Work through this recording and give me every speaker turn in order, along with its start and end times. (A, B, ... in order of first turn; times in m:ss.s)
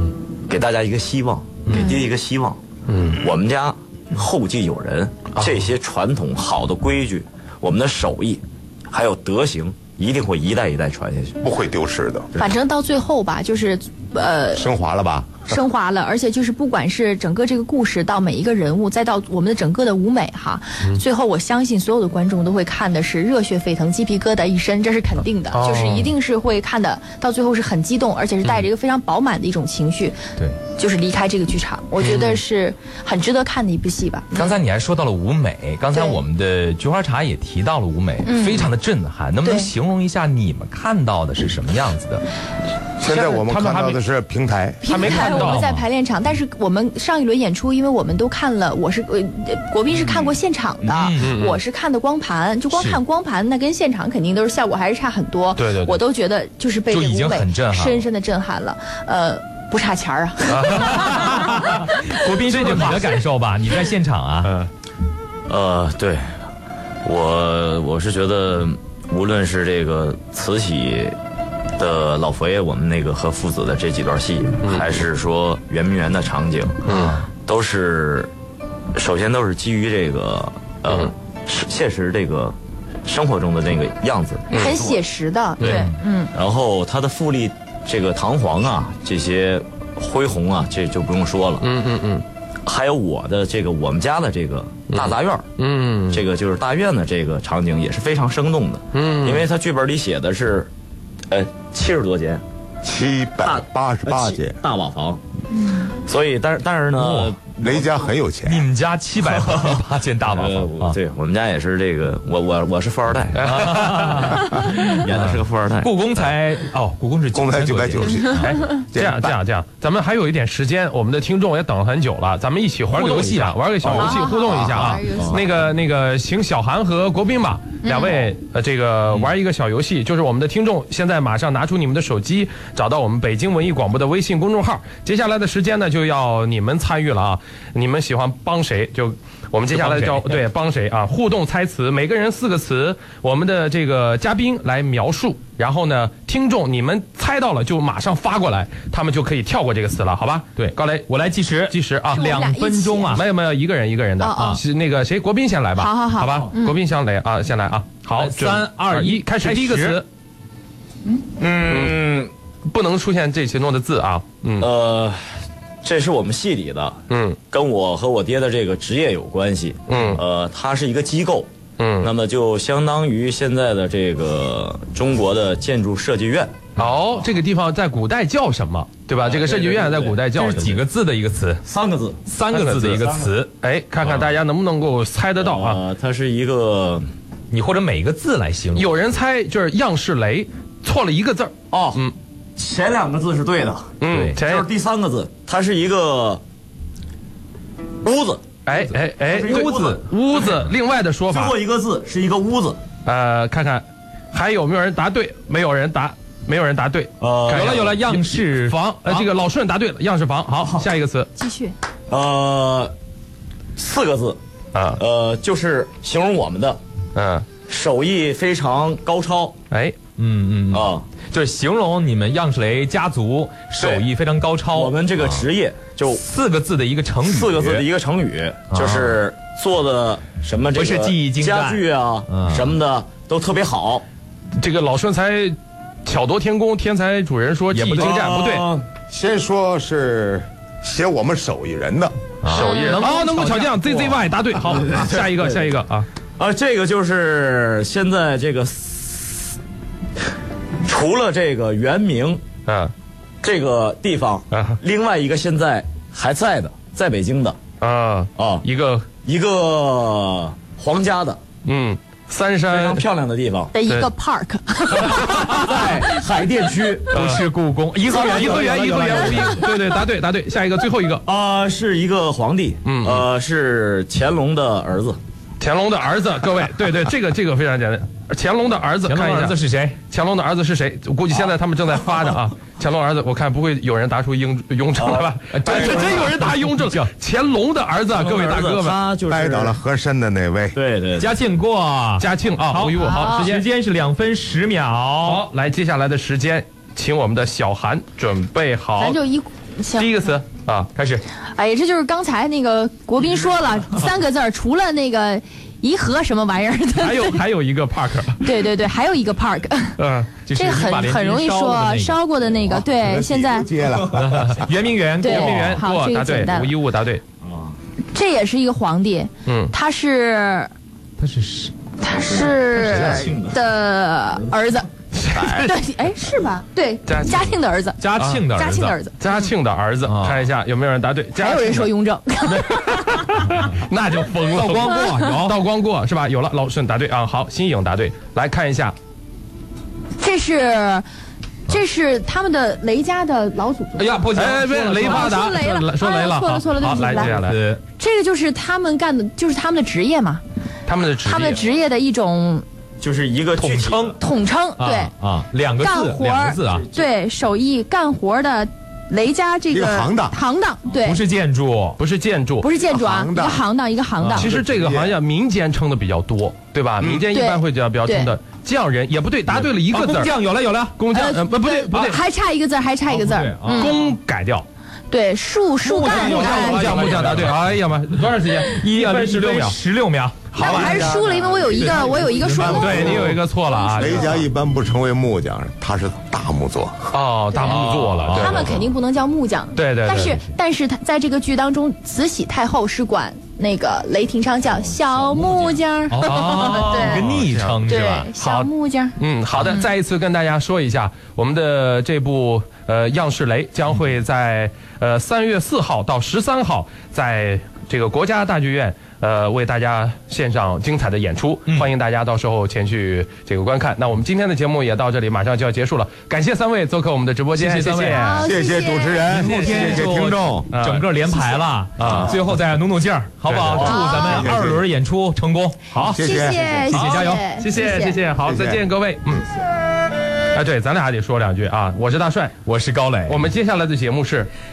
0:00.5-0:02.6 A
0:01.7-0:02.0 B
0:02.9-0:03.2 C
0:03.2-0:11.4 A
0:11.4-0:12.3 D
0:12.4-0:14.7 B
0:14.5-0:15.4 D
0:15.5-0:30.2 B
0:25.5-0:26.1 C
0:30.7-0:34.5 B
0:32.0-0:32.4 C
0:34.3-0:42.2 E
0:35.9-0:36.2 B
0:38.2-0:38.7 B
0:39.4-0:39.7 B
0:43.0-0:45.0 D
0:43.0-0:44.0 C
0:44.8-1:02.0 B
0:44.8-0:45.7 C
0:45.2-0:45.8 E
0:49.9-0:50.3 C
0:50.8-0:51.3 E
0:51.2-0:51.6 C
0:52.7-0:53.0 E
0:55.6-0:56.0 C
0:56.9-0:58.0 E
1:00.5-1:01.2 C
1:00.8-1:04.5 E
1:02.5-1:03.0 C
1:04.4-1:04.7 C
1:05.5-1:06.3 A
1:07.0-1:11.2 A
1:11.8-1:16.8 A
1:14.6-1:15.0 C
1:16.8-1:17.2 E
1:16.9-1:17.2 C
1:17.4-1:18.3 A
1:18.9-1:25.0 A
1:24.5-1:24.8 C
1:24.5-1:26.3 B
1:25.6-1:25.9 C
1:25.6-1:25.9 E
1:26.3-1:31.7 A
1:31.6-1:32.2 C
1:32.6-1:35.4 A
1:34.9-1:36.2 C
1:36.1-1:40.7 A
1:38.9-1:39.5 C
1:41.3-1:42.4 A
1:42.8-1:44.6 D
1:43.4-1:45.2 A
1:45.5-1:45.9 B
1:45.8-1:48.0 A
1:47.0-1:47.3 E
1:47.6-1:48.7 D
1:48.4-1:50.9 E
1:49.2-1:56.0 A
1:53.4-1:54.6 C
1:53.4-1:58.5 E
1:57.3-1:59.4 D
1:58.3-2:31.1 C
2:02.9-2:04.2 E
2:03.9-2:05.4 B
2:05.1-2:05.4 A
2:07.8-2:08.3 B
2:19.7-2:20.4 E
2:30.6-2:33.2 E
2:31.7-2:32.3 C
2:32.1-2:33.2 B
2:33.1-2:40.0 C
2:34.2-2:34.6 B
2:35.8-2:36.8 B
2:38.2-2:40.0 E
2:41.4-2:42.3 A
2:41.7-2:42.1 C
2:42.6-2:44.7 C
2:44.6-2:51.5 A
2:47.1-2:47.4 C
2:49.9-2:50.2 C
2:51.8-2:52.1 C
2:52.0-2:56.8 A
2:56.8-3:00.8 C
2:59.2-3:00.7 A
3:00.3-3:01.6 E
3:01.6-3:03.3 A
3:02.3-3:03.5 E
3:02.5-3:03.0 C
3:03.6-3:05.8 C
3:04.0-3:04.3 A
3:05.4-3:07.1 A
3:07.5-3:08.9 E
3:08.7-3:12.1 C
3:11.7-3:12.0 A
3:12.6-3:16.4 A
3:14.0-3:14.7 C
3:18.0-3:18.6 A
3:18.6-3:21.5 C
3:19.2-3:20.5 A
3:21.3-3:22.8 A
3:23.0-3:31.3 C
3:27.2-3:28.0 A
3:27.5-3:29.2 E
3:31.4-3:31.7 B
3:32.1-3:32.9 A
3:33.8-3:34.4 A
3:34.7-3:35.0 C
3:34.9-3:36.8 A
3:37.1-3:37.5 C
3:37.6-3:39.6 A
3:39.7-3:40.0 C
3:40.2-3:45.4 E
3:40.7-3:41.0 A
3:43.8-3:44.1 A
3:44.7-3:46.2 A
3:46.1-3:47.8 E
3:47.2-3:54.0 A
3:48.7-3:49.2 E
3:50.7-3:52.7 E
3:54.6-3:58.7 C
3:57.7-3:58.1 E
3:57.7-3:58.8 A
3:59.1-4:02.2 D
4:02.4-4:04.2 E
4:02.5-4:06.1 C
4:02.5-4:03.0 B
4:04.8-4:05.6 A
4:06.4-4:09.5 A
4:10.8-4:12.4 A
4:12.7-4:12.9 C
4:13.4-4:17.6 A
4:14.5-4:14.8 C
4:17.8-4:19.1 C
4:18.4-4:18.6 A
4:19.2-4:21.4 A
4:21.6-4:23.0 C
4:22.7-4:23.7 A
4:23.7-4:26.1 B
4:25.0-4:25.6 C
4:25.1-4:27.4 A
4:25.6-4:26.0 E
4:27.1-4:27.4 C
4:27.1-4:29.7 E
4:28.1-4:31.2 C
4:28.1-4:29.4 A
4:31.2-4:35.2 A
4:32.8-4:33.3 C
4:35.6-4:39.6 C
4:39.0-4:40.0 E
4:40.1-4:49.0 C
4:45.0-4:46.2 A
4:45.5-4:47.1 E
4:48.1-4:49.8 A
4:49.3-4:50.8 D
4:50.7-4:51.4 A
4:51.2-4:55.4 E
4:52.2-4:53.6 C
4:53.0-4:53.4 B
4:55.2-4:59.2 C
4:59.0-5:00.1 B
5:00.0-5:00.9 C
5:00.9-5:01.2 E
5:01.5-5:07.4 B
5:06.9-5:08.4 C
5:08.4-5:10.0 B
5:10.0-5:10.3 C
5:10.4-5:12.2 E
5:10.5-5:13.7 B
5:12.5-5:14.7 D
5:14.1-5:15.8 E
5:15.2-5:16.7 B
5:15.2-5:17.2 C
5:17.4-5:17.8 A
5:18.1-5:20.7 B
5:19.4-5:19.7 C
5:21.2-5:21.7 E
5:22.0-5:24.9 B
5:22.2-5:23.6 A
5:22.8-5:23.3 E
5:25.1-5:25.7 C
5:25.5-5:28.0 B
5:27.1-5:27.6 C
5:28.0-5:29.0 E
5:28.2-5:28.5 C
5:28.5-5:29.5 B
5:29.2-5:31.9 C
5:30.0-5:30.4 E
5:31.4-5:33.3 B
5:32.5-5:39.0 C
5:34.5-5:35.6 E
5:34.9-5:35.4 B
5:40.2-5:41.0 B
5:41.7-5:44.4 B
5:44.0-5:45.4 E
5:44.3-5:47.6 C
5:44.9-5:47.3 B
5:46.8-5:47.8 E
5:48.0-5:50.4 B
5:50.9-5:51.6 C
5:51.2-5:52.6 B
5:53.0-5:54.2 A
5:53.6-5:54.2 E
5:54.2-5:55.1 B
5:54.8-5:56.8 E
5:55.8-6:01.2 B
5:56.7-5:57.0 A
5:59.7-6:00.4 D
6:01.0-6:02.0 E
6:02.0-6:02.7 C
6:02.6-6:04.5 B
6:02.8-6:03.6 D
6:04.4-6:10.4 C
6:04.4-6:05.2 D
6:07.3-6:08.3 B
6:09.5-6:11.0 E
6:11.0-6:12.2 C
6:11.1-6:14.0 B
6:13.1-6:13.9 E
6:13.7-6:14.6 C
6:15.1-6:17.4 B
6:15.8-6:17.7 E
6:16.0-6:19.8 C
6:18.5-6:23.4 E
6:20.5-6:21.0 C
6:20.6-6:24.3 B
6:20.7-6:22.3 D
6:22.6-6:24.4 C
6:24.0-6:27.2 D
6:27.1-6:28.9 C
6:27.6-6:28.7 E
6:28.3-6:37.3 B
6:29.8-6:30.4 C
6:34.7-6:35.8 A
6:36.1-6:38.3 E
6:36.2-6:58.4 C
6:37.8-6:39.2 B
6:57.6-6:58.4 E
6:58.0-6:59.3 B
6:58.4-7:00.7 D
6:59.2-7:05.8 E
6:59.3-7:00.1 C
7:00.7-7:01.1 C
7:02.0-7:02.4 C
7:03.4-7:04.1 C
7:03.8-7:04.5 B
7:04.2-7:04.8 D
7:05.9-7:06.4 C
7:06.0-7:06.9 D
7:06.2-7:08.2 B
7:06.9-7:07.5 E
7:06.9-7:09.5 C
7:08.4-7:08.8 D
7:10.5-7:12.6 C
7:12.6-7:13.4 E
7:13.3-7:14.5 C